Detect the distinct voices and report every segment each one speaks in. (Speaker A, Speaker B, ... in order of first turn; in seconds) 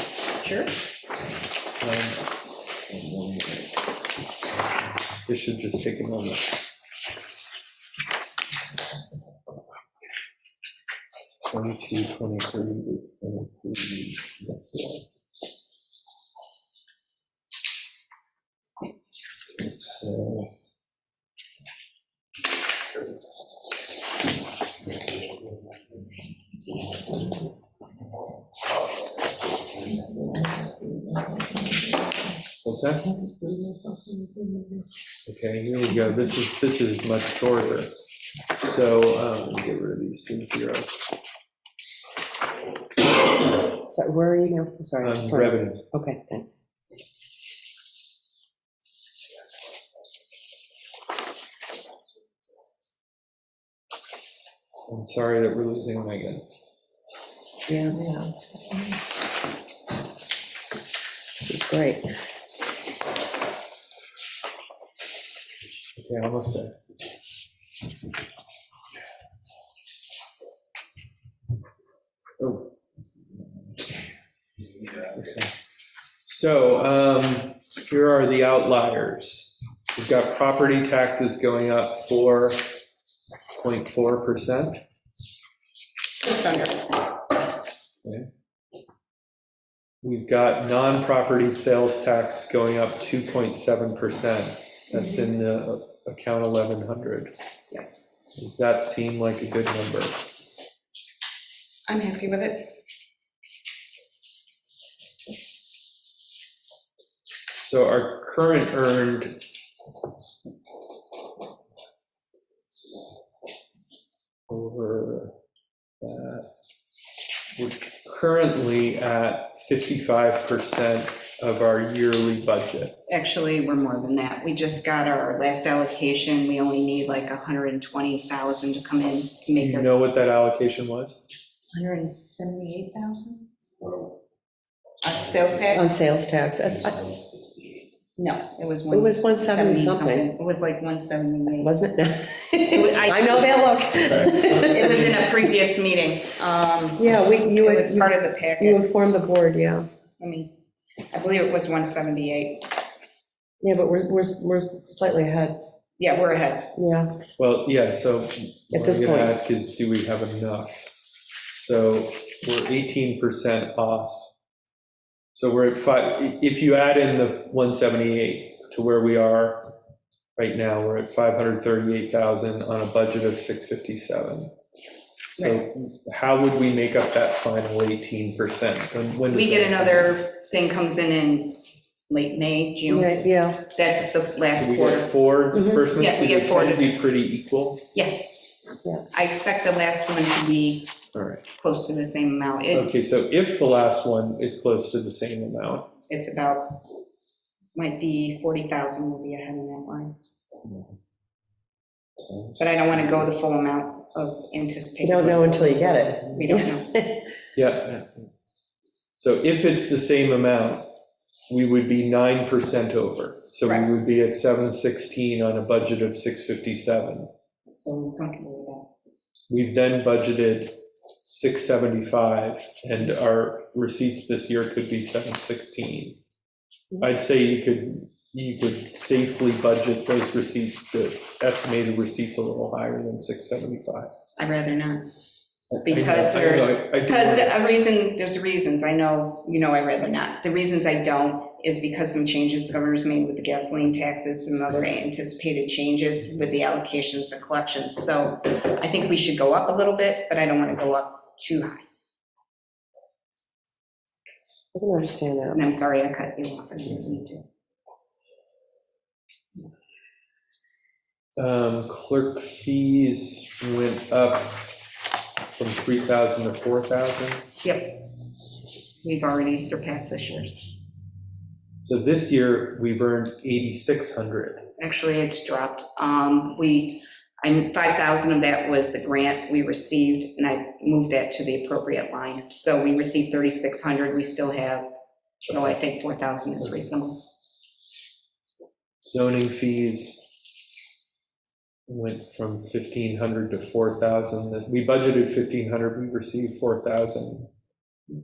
Speaker A: 0.4-0.7, 86.2-87.1, 101.9-102.7, 123.1-129.9, 131.7-134.1, 135.0-135.9, 138.2-141.7, 142.7-143.7, 144.5-148.8, 150.2-150.5, 151.1-152.7, 156.0-156.7, 175.4-175.6, 179.3-185.1, 185.9-186.9, 187.9-190.9, 191.6-192.9, 196.1-196.8, 197.7-200.1, 202.6-206.9, 213.6-213.9, 217.7-218.9, 234.4-235.1, 235.8-251.8, 255.5-257.4, 267.6-268.0, 269.0-270.6, 274.8-284.9, 285.4-287.2
Speaker B: 1.8-2.2, 2.9-3.5, 5.2-6.5, 11.5-15.0, 19.6-20.5, 32.6-33.0, 35.3-37.9, 38.6-41.0, 45.0-45.8, 54.9-56.4, 66.0-66.7, 72.4-73.8, 75.0-75.5, 76.2-82.6, 83.6-84.8, 90.0-97.3, 98.4-100.2, 107.6-109.4, 114.5-115.3, 116.0-116.5, 117.5-123.0, 129.6-131.2, 157.4-160.9, 161.5-164.3, 165.3-169.7, 170.4-174.5, 175.3-180.2, 184.4-187.8, 191.1-191.4, 192.7-195.9, 202.3-202.6, 207.5-208.3, 209.2-210.9, 211.5-217.3, 219.5-226.2, 227.0-234.1, 235.7-237.5, 261.4-264.7, 265.6-267.5, 271.8-274.6, 285.5-285.8, 289.0-290.2, 291.9-297.5
Speaker C: 29.8-32.4, 33.0-34.9, 43.9-46.5, 57.7-58.3, 61.4-62.1, 135.7-137.1, 138.9-140.3, 141.6-145.3, 147.0-149.9, 153.6-155.6, 156.7-157.2, 158.7-159.4, 182.9-183.7, 185.5-185.8, 205.0-207.3, 254.7-255.6